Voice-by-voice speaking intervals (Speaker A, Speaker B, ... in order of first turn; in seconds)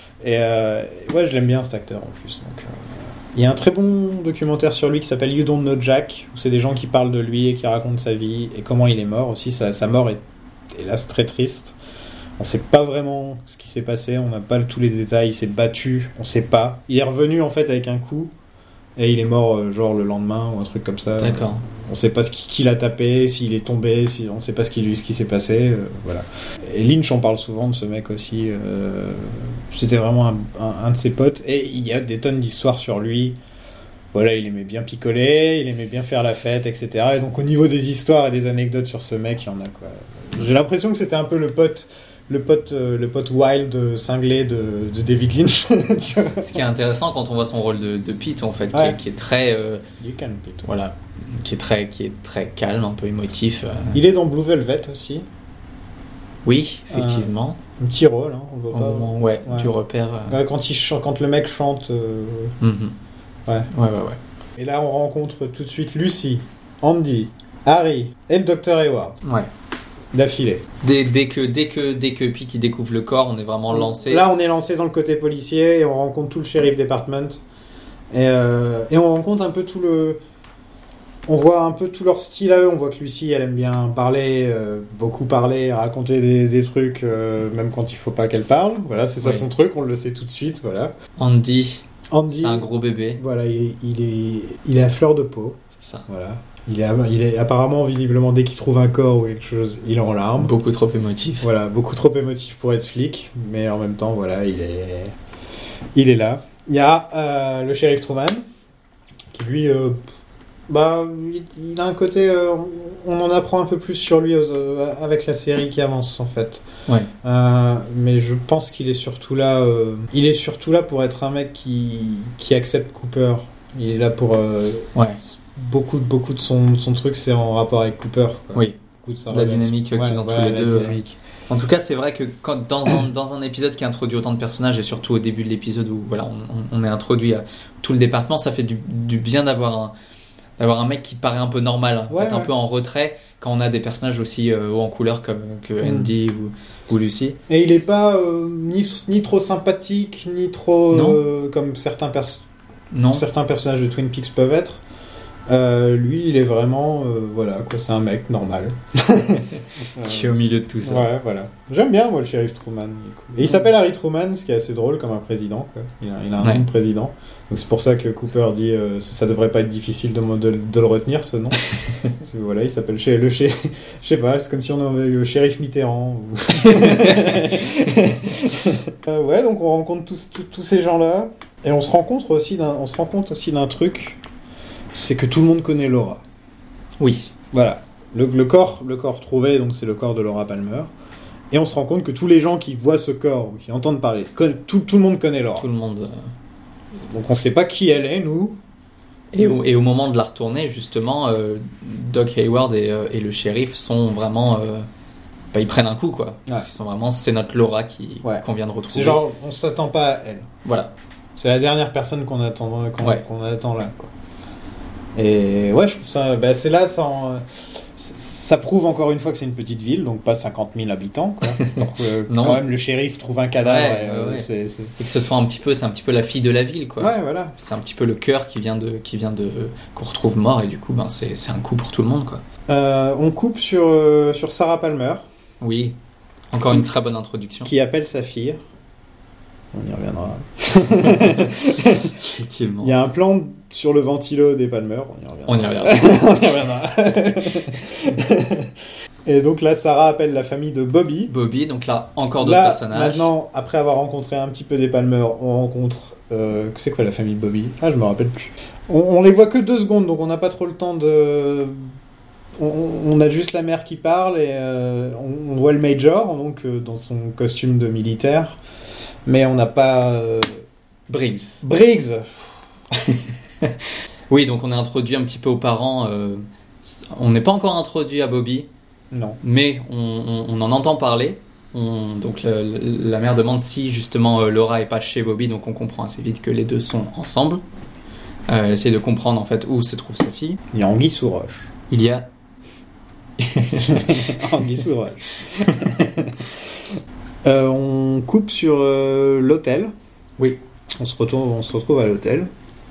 Speaker A: 0.2-11.8, 12.4-18.3, 19.0-33.4, 34.1-46.5, 48.7-49.0, 50.0-50.6, 53.9-55.3, 56.9-59.7, 60.3-62.6, 64.6-69.2, 70.1-70.7, 73.7-77.4, 78.1-80.2, 81.3-90.9, 92.1-92.7, 93.2-100.5, 101.4-105.2, 106.0-108.5, 109.3-110.0, 110.7-116.7, 117.2-131.2, 142.1-142.5, 145.8-146.1, 147.5-152.4, 153.1-154.8, 155.5-184.2, 184.9-186.2, 187.5-190.9, 191.5-195.7, 197.1-198.6, 208.2-210.5, 211.4-214.1, 215.2-224.9, 227.0-227.6, 232.7-235.3, 237.7-238.6, 239.7-242.2, 242.8-248.7, 249.3-251.3, 252.4-261.8, 262.6-268.6, 269.3-270.6, 271.6-272.5, 279.1-279.4, 290.7-291.7, 293.8-296.5, 297.4-299.9, 301.0-302.5
Speaker B: 21.2-21.6, 46.4-49.8, 50.6-54.0, 56.4-57.6, 58.7-60.4, 62.6-63.0, 63.7-64.2, 70.8-74.3, 89.2-89.5, 91.2-93.2, 95.8-96.1, 100.4-101.5, 129.3-139.9, 140.6-147.4, 150.9-151.2, 152.9-153.3, 160.0-161.1, 166.4-166.7, 176.6-177.5, 187.0-187.3, 195.6-196.3, 199.3-204.9, 205.5-209.2, 210.7-210.9, 222.3-222.7, 223.6-224.5, 225.0-232.4, 235.6-235.9, 236.5-237.7, 241.2-241.5, 242.2-243.0, 245.5-246.4, 251.3-253.3, 271.1-271.6, 273.0-273.8, 274.3-278.7, 279.4-287.6, 288.5-290.6, 291.9-292.3, 293.4-294.5